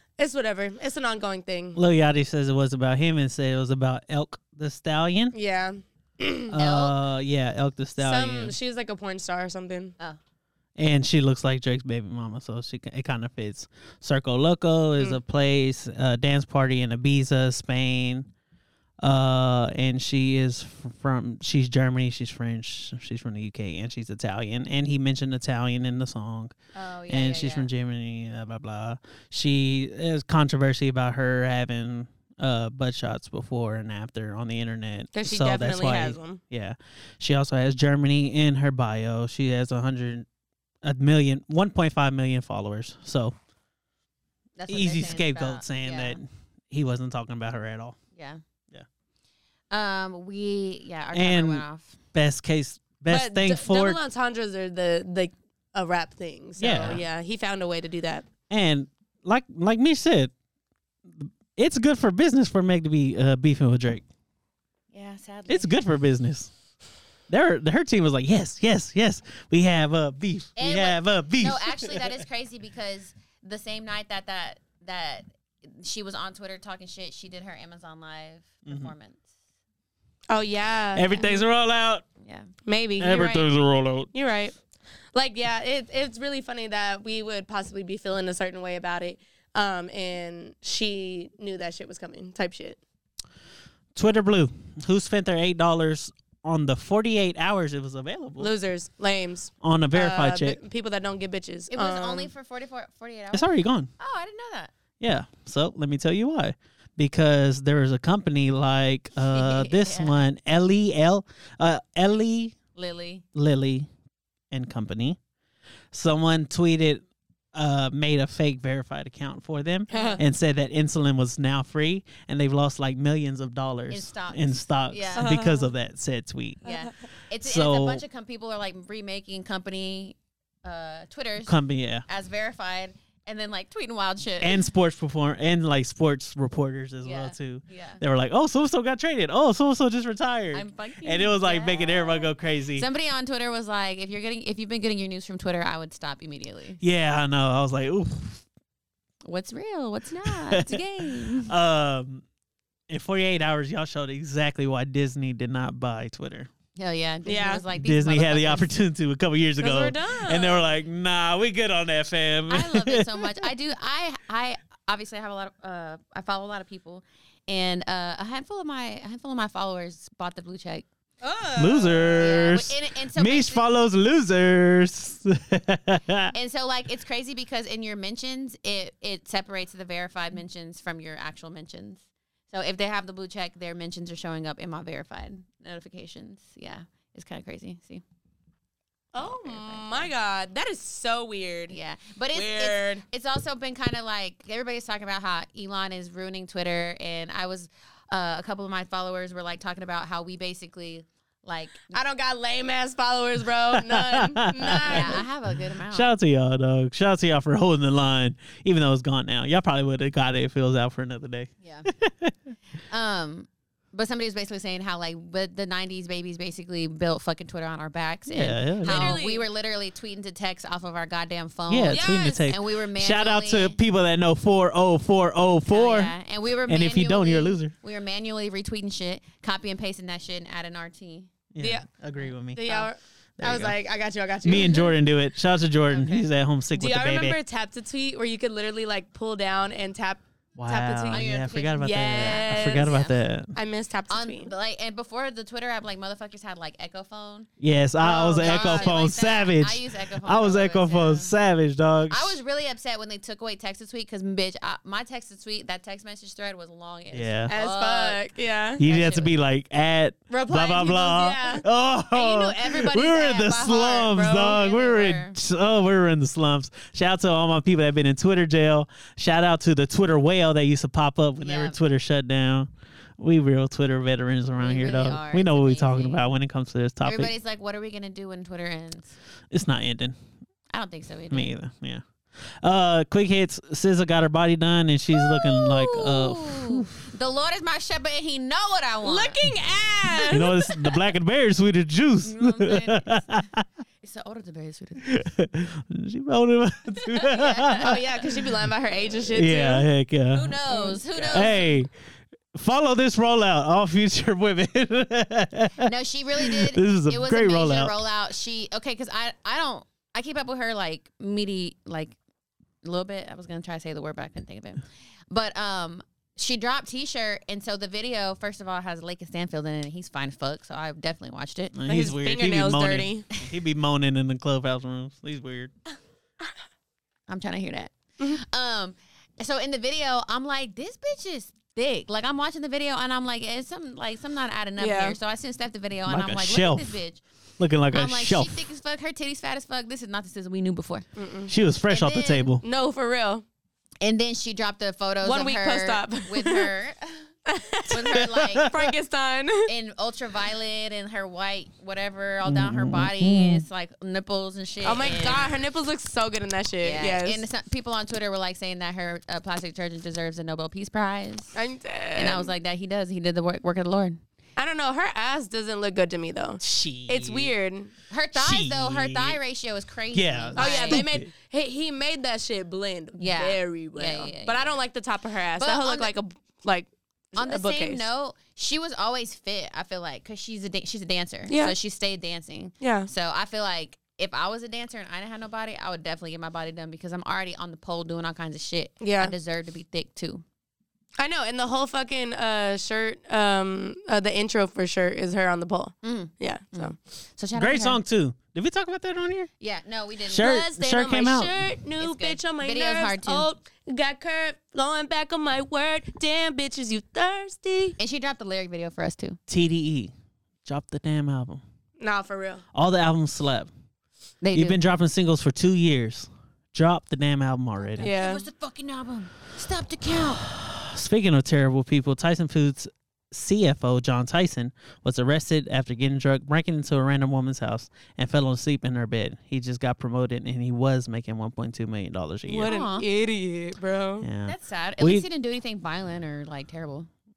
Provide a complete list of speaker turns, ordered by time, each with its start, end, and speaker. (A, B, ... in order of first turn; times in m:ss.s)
0:00.2-0:01.8 A
0:01.8-0:05.4 B
0:05.3-0:06.5 A
0:06.5-0:08.6 B
0:06.6-0:07.0 C
0:08.0-0:10.0 A
0:10.8-0:18.3 B
0:19.0-0:26.6 B
0:26.8-0:27.7 C
0:27.1-0:40.3 B
0:35.1-0:36.4 A
0:40.8-0:43.4 B
0:44.6-0:46.2 C
0:44.7-0:48.0 B
0:49.7-0:52.0 C
0:51.1-0:54.0 B
0:53.1-0:58.3 A
0:56.6-0:57.0 B
0:58.5-1:00.3 B
1:01.1-1:04.0 B
1:04.9-1:05.8 C
1:05.5-1:06.5 B
1:07.3-1:12.2 B
1:10.6-1:19.2 C
1:18.7-1:18.9 B
1:20.3-1:21.4 A
1:21.0-1:22.0 B
1:22.2-1:22.5 C
1:22.7-1:23.5 A
1:23.0-1:24.1 B
1:24.1-1:24.6 A
1:25.1-1:32.8 A
1:34.0-1:38.5 B
1:38.4-1:42.3 A
1:39.6-1:40.6 B
1:41.7-1:44.7 C
1:43.3-1:43.9 B
1:45.0-1:52.6 B
1:49.3-1:50.1 C
1:52.8-1:53.2 C
1:53.4-1:53.9 B
1:54.5-1:55.2 B
1:55.9-2:06.6 B
1:59.9-2:00.2 A
1:59.9-2:00.2 C
2:03.9-2:05.3 C
2:05.2-2:05.7 A
2:06.6-2:11.5 C
2:07.4-2:08.0 B
2:11.4-2:12.0 B
2:12.1-2:14.6 C
2:14.4-2:22.9 B
2:17.0-2:18.0 C
2:20.5-2:26.8 C
2:26.8-2:28.4 B
2:29.3-2:31.5 C
2:30.2-2:32.2 B
2:32.9-2:36.5 B
2:36.8-2:38.7 C
2:37.3-2:37.6 A
2:37.8-2:43.5 B
2:39.6-2:40.7 A
2:42.5-2:50.9 C
2:51.2-2:52.2 A
2:51.6-2:56.3 B
2:52.2-2:53.6 C
2:56.3-3:08.0 C
3:09.1-3:11.8 A
3:09.2-3:10.1 C
3:11.7-3:22.0 C
3:12.3-3:13.0 A
3:21.9-3:25.2 A
3:23.7-3:25.2 B
3:24.9-3:26.1 C
3:25.9-3:32.3 B
3:31.6-3:31.9 C
3:32.9-3:43.8 C
3:38.3-3:39.2 B
3:38.8-3:39.5 A
3:41.7-3:46.1 B
3:41.9-3:42.5 A
3:45.7-3:51.3 C
3:46.7-3:47.7 B
3:51.5-3:52.6 B
3:51.6-3:51.9 A
3:52.5-3:54.9 A
3:53.4-3:53.8 B
3:54.4-3:57.4 B
3:55.9-3:56.3 C
3:56.8-4:01.2 A
4:00.6-4:03.5 B
4:01.1-4:03.1 C
4:01.8-4:02.9 A
4:03.6-4:04.5 A
4:04.1-4:07.5 C
4:07.6-4:12.4 B
4:08.0-4:09.0 A
4:08.1-4:11.3 C
4:12.1-4:18.2 C
4:17.1-4:17.5 B
4:17.5-4:18.8 A
4:18.8-4:37.3 B
4:18.8-4:19.3 C
4:20.3-4:24.6 A
4:23.1-4:23.6 C
4:24.3-4:25.4 C
4:31.4-4:31.8 C
4:34.6-4:36.2 C
4:37.0-4:39.1 C
4:39.5-4:40.2 B
4:40.7-4:41.5 C
4:41.3-4:42.0 B
4:42.6-4:47.1 B
4:45.2-4:49.4 C
4:49.0-4:50.7 A
4:50.3-4:53.6 B
4:52.2-4:53.3 C
4:54.0-4:55.2 C
4:55.0-4:58.5 B
4:57.1-4:58.0 C
4:57.8-4:59.9 A
4:59.3-5:00.6 B
5:00.3-5:01.7 C
5:00.7-5:01.6 A
5:01.2-5:01.9 B
5:02.5-5:08.0 B
5:05.8-5:12.1 C
5:12.8-5:21.8 C
5:21.8-5:25.7 B
5:21.9-5:23.3 A
5:27.3-5:37.2 C
5:34.8-5:35.2 A
5:36.1-5:37.0 B
5:37.6-5:38.6 B
5:37.9-5:41.1 C
5:41.2-5:41.5 A
5:41.5-5:42.6 B
5:41.9-5:42.5 C
5:42.6-5:43.4 A
5:44.0-5:47.3 C
5:45.2-5:46.7 A
5:47.5-5:49.7 A
5:47.9-5:48.7 C
5:48.4-5:48.9 B
5:49.7-5:55.5 C
5:52.4-5:53.7 B
5:54.8-5:57.4 A
5:56.8-6:01.6 C
6:01.6-6:02.5 A
6:02.1-6:04.2 C
6:04.6-6:07.9 A
6:06.6-6:07.5 B
6:08.1-6:11.0 C
6:08.3-6:09.4 B
6:10.1-6:11.3 B
6:10.6-6:18.1 A
6:13.2-6:14.7 C
6:15.6-6:16.1 C
6:17.4-6:30.4 C
6:21.5-6:21.8 A
6:22.8-6:23.1 A
6:29.0-6:29.3 A
6:31.2-6:37.0 A
6:36.0-6:38.0 C
6:37.6-6:39.5 B
6:39.6-6:40.6 C
6:40.3-6:41.6 B
6:40.4-6:48.0 A
6:42.0-6:43.5 C
6:48.0-6:49.4 C
6:49.5-6:50.1 B
6:50.6-6:51.6 B
6:52.0-6:52.6 A
6:52.8-6:53.7 B
6:54.4-6:54.8 C
6:54.5-6:58.1 B
6:57.8-7:00.4 C
6:58.0-6:58.4 A
7:00.1-7:12.7 B
7:12.5-7:14.3 A
7:12.7-7:13.0 C
7:14.2-7:15.3 B
7:14.5-7:17.1 C